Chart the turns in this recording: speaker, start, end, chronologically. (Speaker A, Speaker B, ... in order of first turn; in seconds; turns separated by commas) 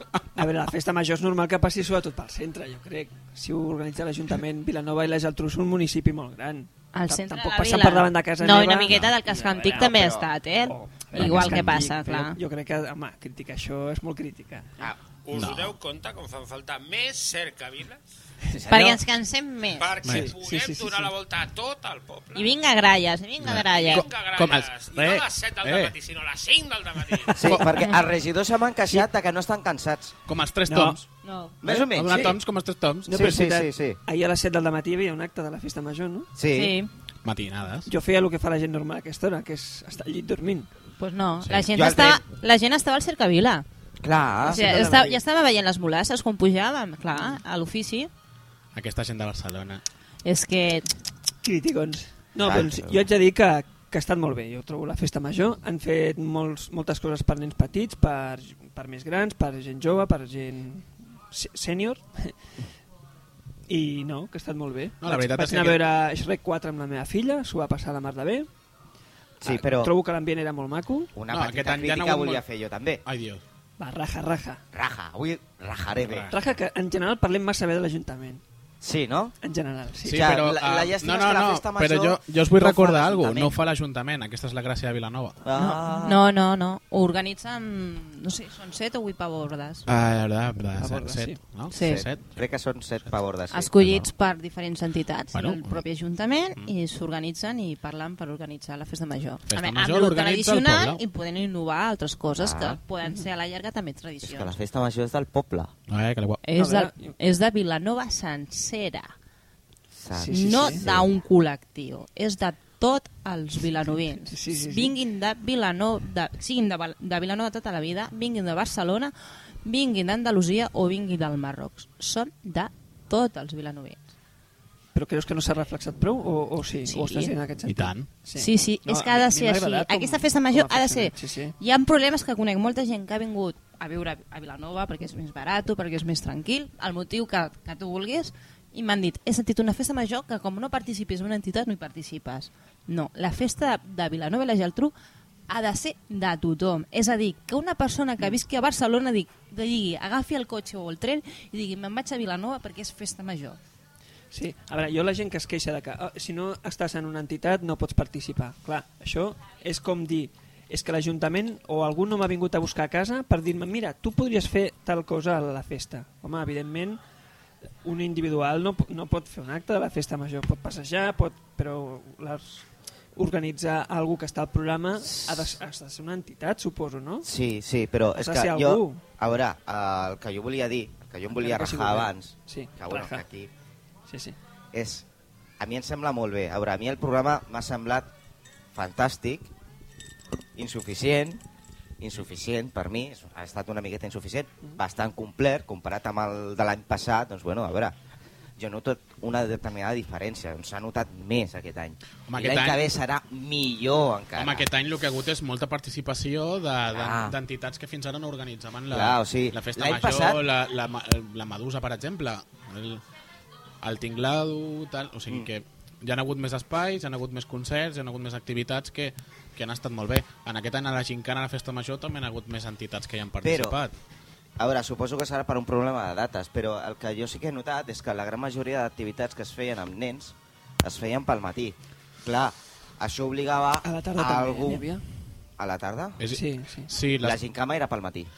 Speaker A: 0.4-9.9, Speaker B: 6.9-12.4, Speaker C: 9.8-10.3, Speaker A: 10.7-14.9, Speaker D: 11.2-11.7, Speaker E: 15.2-18.0, Speaker D: 15.3-15.8, Speaker C: 18.5-19.0, Speaker B: 18.7-19.9, Speaker E: 19.8-22.5, Speaker D: 20.1-20.3, Speaker A: 20.1-21.1, Speaker B: 22.4-24.1, Speaker D: 23.4-25.9, Speaker E: 23.7-27.5, Speaker D: 27.2-27.7, Speaker C: 27.4-30.1, Speaker D: 30.3-31.1, Speaker A: 30.7-31.0, Speaker B: 31.2-31.6, Speaker C: 31.6-32.4, Speaker D: 31.6-33.3, Speaker A: 33.1-36.3, Speaker C: 33.1-34.0, Speaker C: 36.4-36.8, Speaker B: 36.5-36.9, Speaker D: 37.2-37.9, Speaker A: 37.9-40.7, Speaker B: 41.0-43.6, Speaker D: 41.4-41.7, Speaker C: 41.7-42.2, Speaker C: 44.0-45.1, Speaker A: 44.5-45.2, Speaker B: 44.5-48.1, Speaker D: 48.7-49.8, Speaker B: 50.2-50.9, Speaker A: 51.4-62.3, Speaker C: 52.4-53.0, Speaker A: 63.7-68.5, Speaker D: 65.0-65.8, Speaker A: 69.4-71.1, Speaker C: 69.4-69.9, Speaker C: 71.2-73.0, Speaker D: 71.3-72.4, Speaker D: 73.0-73.4, Speaker A: 73.8-74.6, Speaker C: 74.7-76.3, Speaker D: 76.0-76.5, Speaker A: 76.3-78.4, Speaker C: 78.8-79.3, Speaker A: 79.4-80.3, Speaker C: 80.0-83.6, Speaker D: 80.0-85.4, Speaker C: 85.4-86.2, Speaker B: 85.6-89.8, Speaker D: 89.9-92.3, Speaker A: 90.8-91.4, Speaker B: 91.7-92.0, Speaker C: 91.7-93.7, Speaker B: 93.5-104.5, Speaker D: 93.8-94.1, Speaker D: 95.3-95.8, Speaker D: 99.5-101.0, Speaker C: 102.4-102.8, Speaker C: 104.2-105.7, Speaker D: 105.9-106.4, Speaker B: 106.4-109.1, Speaker A: 106.5-107.2, Speaker C: 109.9-111.1, Speaker A: 110.1-110.8, Speaker B: 110.3-119.1, Speaker A: 114.2-114.9, Speaker B: 119.7-124.0, Speaker A: 125.0-131.6, Speaker B: 126.9-127.3, Speaker D: 127.7-128.1, Speaker B: 128.3-144.9, Speaker B: 145.5-153.6, Speaker A: 154.3-167.0, Speaker A: 167.8-177.3, Speaker C: 177.2-183.5, Speaker A: 178.2-179.0, Speaker A: 181.4-183.2, Speaker A: 184.1-184.4, Speaker C: 184.7-185.1, Speaker C: 185.6-188.1, Speaker C: 188.7-189.5, Speaker C: 190.6-191.4, Speaker C: 192.0-197.9, Speaker C: 198.6-204.7, Speaker D: 202.3-202.9, Speaker D: 204.4-213.0, Speaker C: 206.9-207.4, Speaker C: 208.9-210.4, Speaker D: 213.8-223.9, Speaker C: 223.4-223.8, Speaker C: 224.6-234.8, Speaker A: 233.8-235.0, Speaker C: 235.6-236.2, Speaker D: 236.2-237.4, Speaker A: 236.3-236.9, Speaker C: 237.2-238.3